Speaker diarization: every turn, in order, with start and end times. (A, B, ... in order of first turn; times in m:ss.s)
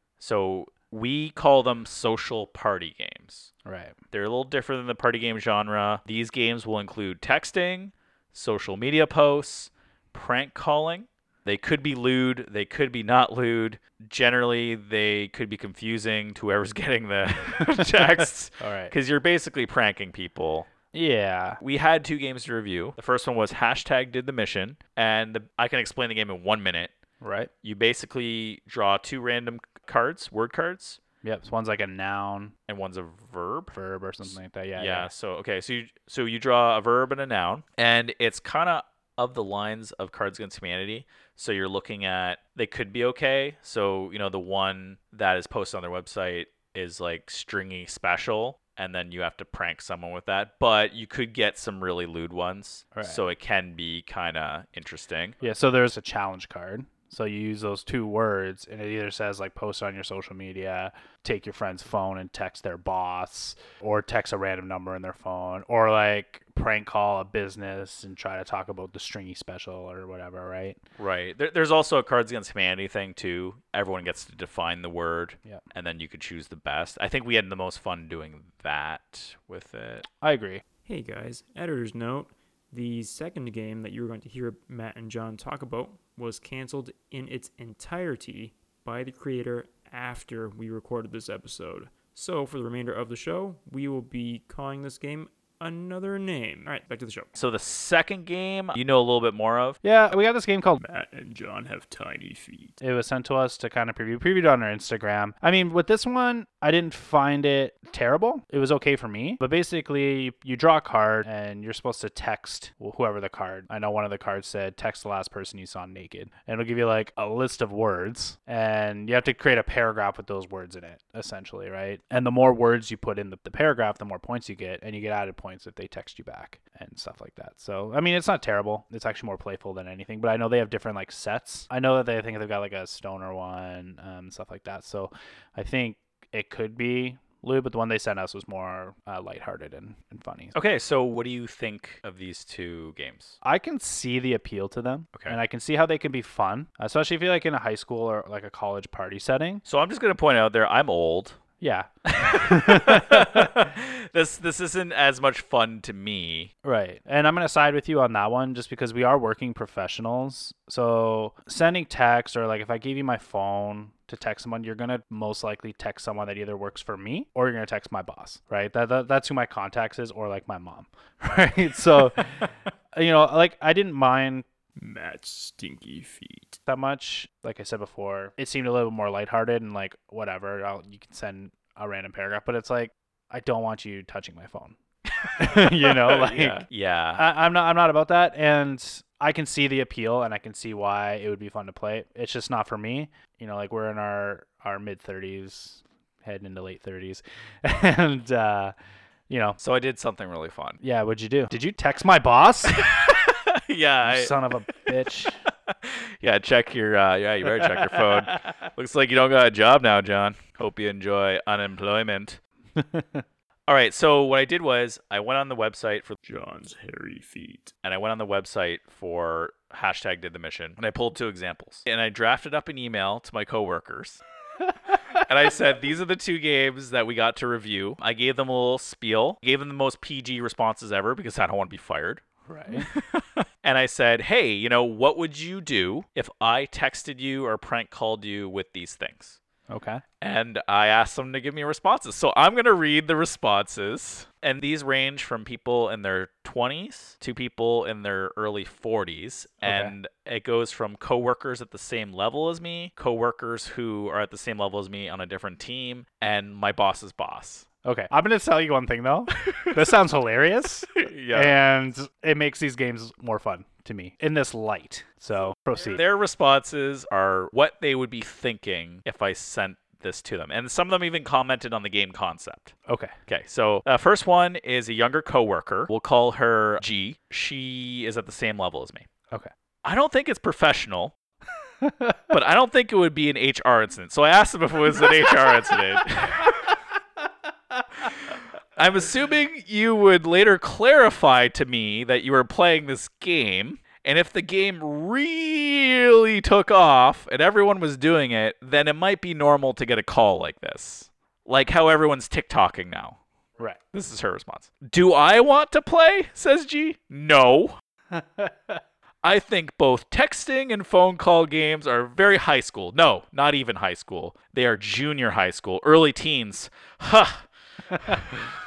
0:00.2-0:03.5 A
0:03.6-0:04.0 B
0:04.1-0:20.7 A
0:17.6-0:18.9 B
0:20.9-0:21.6 B
0:21.6-0:26.9 A
0:27.2-0:27.5 B
0:27.6-0:31.0 A
0:31.2-0:32.5 B
0:32.7-0:55.4 A
0:33.7-0:35.1 B
0:52.9-0:53.2 B
0:55.4-1:10.8 B
1:11.0-1:20.0 A
1:20.2-1:20.6 B
1:20.8-1:37.3 C
1:37.4-1:39.8 A
1:39.8-1:40.8 B
1:40.8-1:42.8 C
1:42.8-2:20.5 B
2:20.5-2:23.4 A
2:23.4-2:29.6 B
2:29.6-2:31.4 A
2:31.6-2:33.7 B
2:32.1-2:36.5 A
2:36.6-2:54.4 B
2:54.8-2:56.6 C
2:56.7-3:04.8 B
3:05.2-3:07.2 A
3:05.3-3:18.7 B
3:19.3-3:19.6 B
3:19.6-3:20.8 A
3:20.8-3:22.9 B
3:22.7-3:24.9 A
3:24.0-3:25.4 B
3:25.5-3:32.4 A
3:32.8-3:33.2 B
3:33.7-3:36.2 A
3:36.2-3:37.7 C
3:37.8-3:44.2 A
3:45.1-3:59.4 A
3:52.5-3:52.9 B
3:59.7-4:00.0 B
4:00.2-4:17.7 A
4:09.6-4:09.9 B
4:17.8-4:26.0 B
4:19.5-4:19.8 A
4:20.9-4:21.6 A
4:25.8-4:32.7 A
4:32.9-4:33.1 B
4:33.3-4:39.1 A
4:39.8-4:41.1 A
4:41.8-4:42.2 B
4:42.3-4:46.7 A
4:45.0-4:45.3 B
4:48.0-5:03.2 A
5:03.9-5:07.8 A
5:08.1-5:08.8 B
5:09.2-5:18.4 A
5:17.9-5:18.3 B